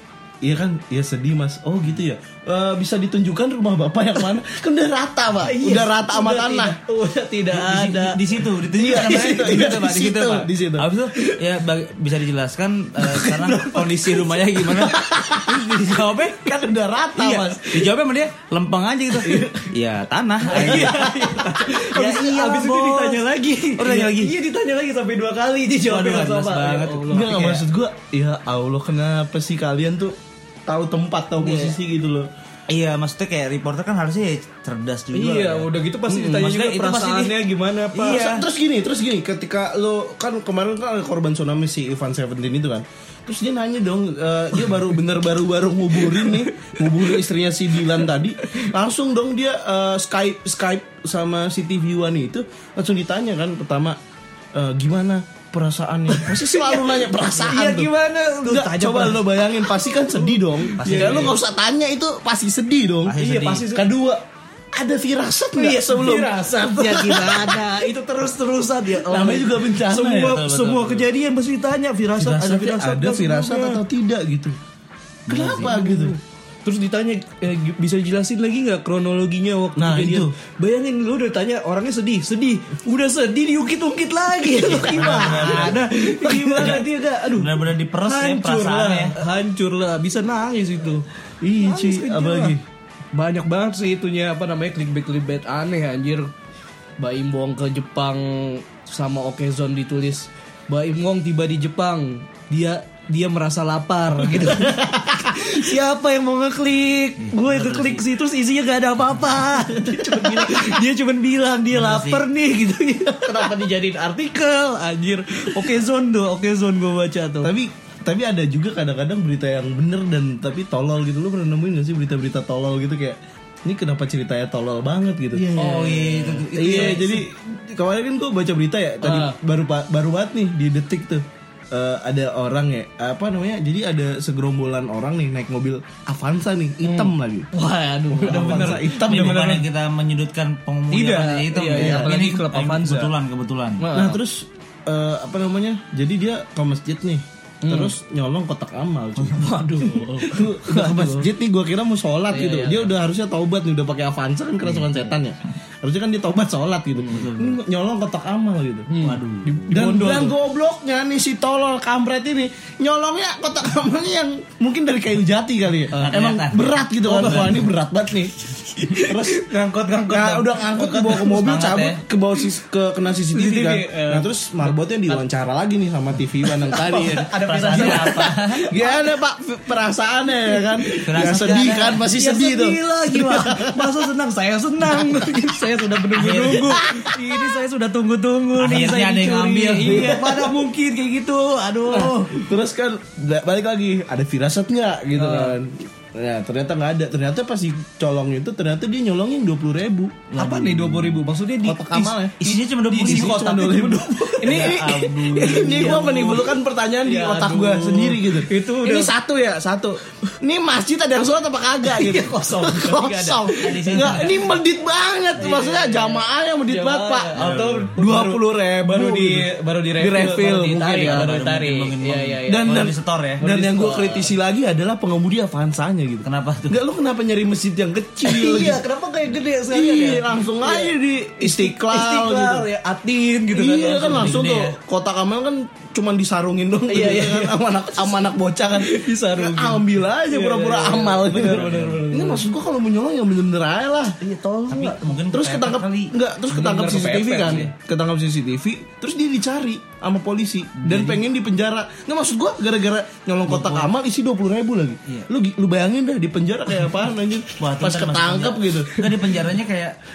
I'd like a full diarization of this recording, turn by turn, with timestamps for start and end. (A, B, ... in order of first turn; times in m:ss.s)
0:00.4-0:06.8 A
0:05.4-0:09.4 B
0:07.5-0:16.4 C
0:08.8-0:10.9 A
0:13.0-0:16.5 B
0:15.0-0:15.6 A
0:16.4-0:17.8 A
0:17.2-0:21.0 C
0:19.2-0:19.7 A
0:20.4-0:27.6 B
0:20.5-0:21.4 A
0:21.7-0:23.2 C
0:23.8-0:24.3 C
0:25.9-0:27.6 C
0:27.1-0:30.2 A
0:30.7-0:32.3 A
0:31.4-0:31.8 B
0:32.7-0:35.7 C
0:35.1-0:38.4 B
0:36.1-0:36.5 A
0:36.4-0:37.4 C
0:37.9-0:38.5 C
0:38.1-0:54.0 A
0:45.9-0:48.7 B
0:54.5-0:57.9 A
0:56.1-1:01.4 B
0:58.4-1:03.2 A
1:00.8-1:01.4 C
1:03.1-1:03.7 C
1:03.2-1:03.9 B
1:03.7-1:07.7 A
1:05.5-1:13.8 B
1:09.1-1:10.4 A
1:10.1-1:11.1 C
1:12.2-1:12.6 C
1:12.3-1:14.6 A
1:15.3-1:15.8 C
1:15.3-1:16.2 A
1:15.5-1:31.0 B
1:19.8-1:20.3 A
1:24.6-1:25.9 C
1:24.8-1:26.8 A
1:26.6-1:29.2 C
1:31.4-1:32.6 A
1:31.6-1:32.6 B
1:33.1-1:36.3 B
1:37.0-1:57.5 B
1:44.6-1:45.3 A
1:47.2-1:48.1 C
1:49.7-1:50.8 A
1:51.7-1:52.3 C
1:57.4-2:05.5 A
2:05.3-2:07.2 B
2:05.5-2:07.1 C
2:06.5-2:17.5 A
2:09.0-2:09.4 B
2:16.8-2:19.7 B
2:18.1-2:19.5 A
2:18.2-2:23.9 C
2:20.9-2:23.1 B
2:21.7-2:22.1 A
2:23.8-2:24.2 B
2:23.9-2:39.0 A
2:27.6-2:27.9 B
2:29.3-2:31.3 B
2:32.3-2:32.9 B
2:34.7-2:35.1 C
2:37.0-2:37.6 C
2:38.9-2:40.4 B
2:39.0-2:40.1 C
2:39.7-2:49.5 A
2:45.9-2:46.3 B
2:45.9-2:47.7 C
2:47.0-2:47.7 B
2:48.8-2:51.2 B
2:50.1-3:04.0 A
2:50.7-2:52.0 C
2:53.3-2:55.2 B
2:56.4-2:59.2 B
2:57.3-2:58.7 C
3:00.5-3:12.5 B
3:01.0-3:02.0 C
3:06.2-3:06.9 C
3:08.6-3:10.3 C
3:09.8-3:10.5 A
3:11.9-3:20.3 A
3:15.2-3:15.6 B
3:20.3-3:21.2 C
3:20.4-3:22.3 B
3:21.6-3:37.4 A
3:22.4-3:26.4 C
3:22.9-3:29.1 B
3:31.8-3:34.5 B
3:33.6-3:34.5 C
3:35.4-3:42.8 B
3:37.4-3:37.9 C
3:38.0-3:41.4 A
3:41.0-3:43.4 C
3:42.5-3:48.8 A
3:43.4-3:44.3 B
3:46.2-3:46.8 C
3:48.2-3:54.5 B
3:49.7-3:52.7 A
3:53.5-4:04.2 A
3:54.1-3:54.8 C
3:56.9-4:02.5 B
4:01.3-4:02.1 C
4:04.2-4:05.1 B
4:04.7-4:06.1 C
4:05.3-4:19.1 A
4:06.5-4:07.7 B
4:07.4-4:07.7 C
4:10.8-4:11.2 C
4:13.5-4:13.9 C
4:17.4-4:20.0 C